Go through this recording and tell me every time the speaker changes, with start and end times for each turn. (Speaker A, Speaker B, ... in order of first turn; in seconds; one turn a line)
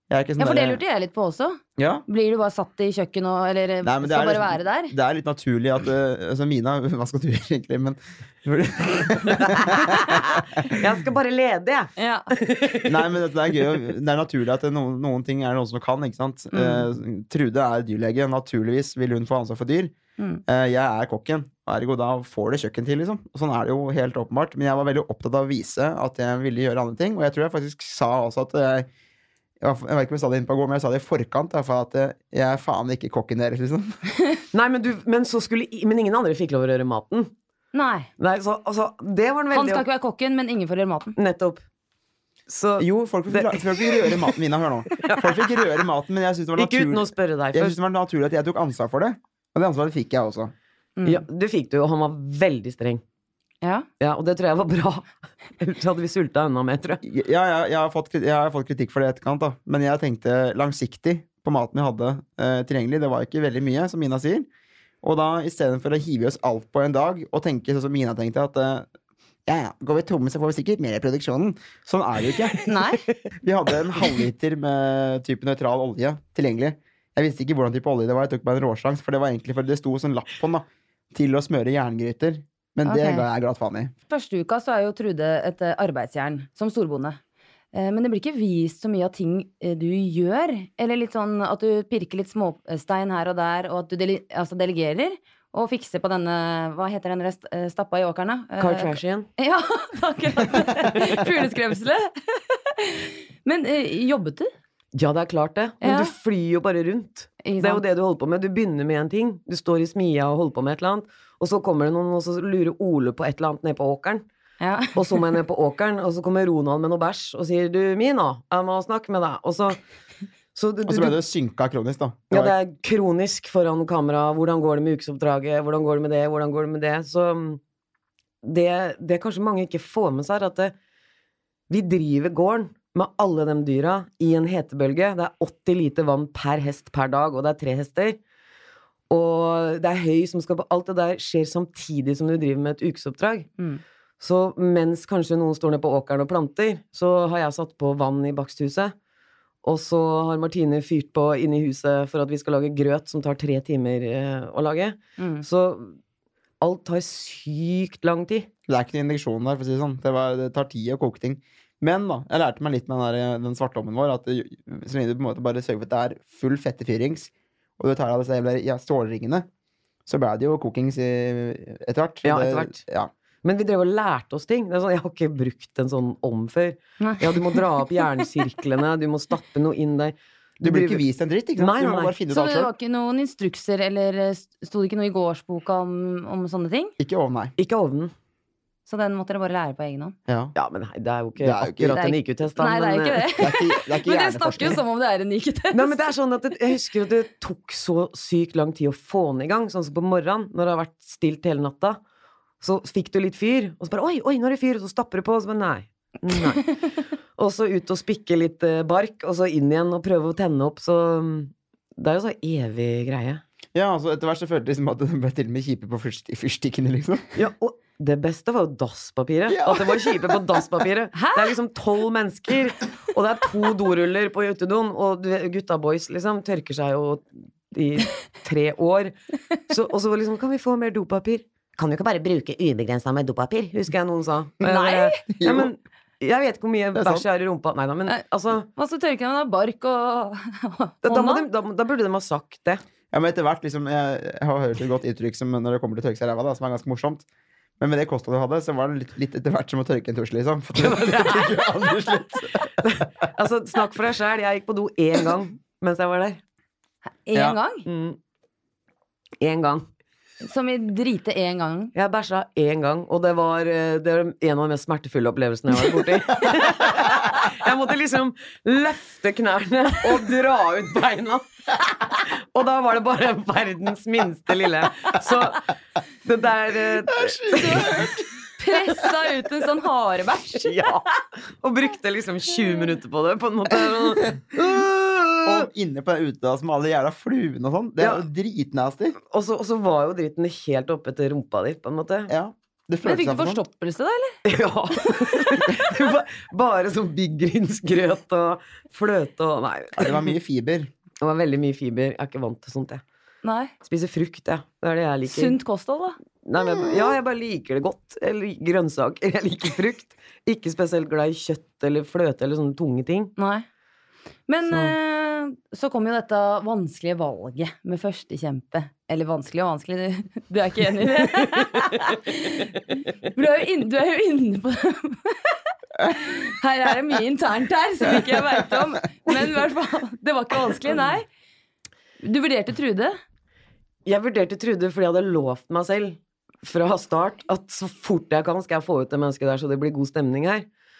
Speaker A: 0.1-0.8
Speaker B: 0.4-4.9
Speaker A: 1.8-2.0
Speaker A: 3.8-10.8
Speaker C: 9.4-13.8
Speaker B: 12.0-12.3
Speaker A: 12.8-19.9
Speaker B: 16.5-16.9
Speaker A: 20.4-28.9
Speaker A: 29.6-34.0
Speaker C: 34.5-37.3
Speaker B: 37.7-38.1
Speaker C: 38.2-39.8
Speaker B: 39.5-41.1
Speaker C: 41.1-41.6
Speaker C: 42.5-45.8
Speaker A: 42.8-50.5
Speaker C: 46.6-47.8
Speaker B: 51.0-51.2
Speaker C: 51.0-53.0
Speaker C: 54.0-55.1
Speaker C: 55.6-57.0
Speaker A: 57.0-64.5
Speaker A: 65.0-68.9
Speaker A: 69.5-72.6
Speaker B: 72.7-73.0
Speaker A: 73.4-83.9
Speaker B: 82.8-83.2
Speaker B: 84.1-87.2
Speaker B: 87.7-104.5
Speaker C: 98.6-99.3
Speaker C: 104.9-114.2
Speaker B: 105.8-106.1
Speaker B: 107.4-107.8
Speaker B: 114.6-115.2
Speaker C: 114.9-119.8
Speaker C: 120.5-121.2
Speaker A: 120.8-122.5
Speaker C: 122.3-127.6
Speaker C: 128.4-130.7
Speaker C: 131.7-138.2
Speaker C: 139.1-143.5
Speaker C: 144.2-148.9
Speaker C: 149.6-156.0
Speaker B: 155.2-155.4
Speaker C: 156.6-158.5
Speaker A: 158.7-169.5
Speaker A: 170.1-173.1
Speaker C: 172.2-172.8
Speaker C: 173.4-181.0
Speaker B: 177.0-177.6
Speaker A: 180.6-182.7
Speaker C: 181.6-182.2
Speaker B: 182.3-186.9
Speaker A: 187.0-187.5
Speaker C: 187.6-188.1
Speaker B: 188.9-190.2
Speaker A: 190.3-190.5
Speaker C: 190.6-193.3
Speaker A: 191.4-192.0
Speaker B: 191.9-196.0
Speaker A: 193.3-194.8
Speaker C: 195.7-202.0
Speaker C: 202.6-206.8
Speaker C: 207.4-213.4
Speaker A: 213.7-217.3
Speaker C: 217.3-229.1
Speaker A: 219.5-220.8
Speaker B: 221.1-221.5
Speaker C: 229.7-238.7
Speaker B: 234.6-235.2
Speaker A: 235.3-235.7
Speaker A: 236.9-237.2
Speaker B: 238.7-241.4
Speaker C: 241.0-242.8
Speaker A: 243.1-247.2
Speaker A: 247.8-252.9
Speaker C: 250.8-252.1
Speaker C: 252.8-256.4
Speaker B: 257.2-257.9
Speaker C: 257.9-258.2
Speaker C: 259.4-259.8
Speaker B: 260.4-261.9
Speaker C: 261.9-275.7
Speaker C: 276.2-278.0
Speaker A: 277.1-278.2
Speaker B: 277.5-278.1
Speaker B: 278.6-280.8
Speaker C: 280.6-285.7
Speaker A: 285.4-289.2
Speaker C: 289.3-292.3
Speaker A: 292.3-293.6
Speaker B: 293.0-294.4
Speaker C: 294.4-300.3
Speaker B: 295.1-295.4
Speaker A: 299.9-300.9
Speaker C: 301.2-303.0
Speaker B: 303.4-303.7
Speaker C: 303.8-305.6
Speaker B: 305.3-306.2
Speaker C: 306.4-313.3
Speaker B: 313.4-313.6
Speaker B: 314.5-331.2
Speaker C: 314.7-314.9
Speaker B: 332.2-333.2
Speaker C: 334.1-340.6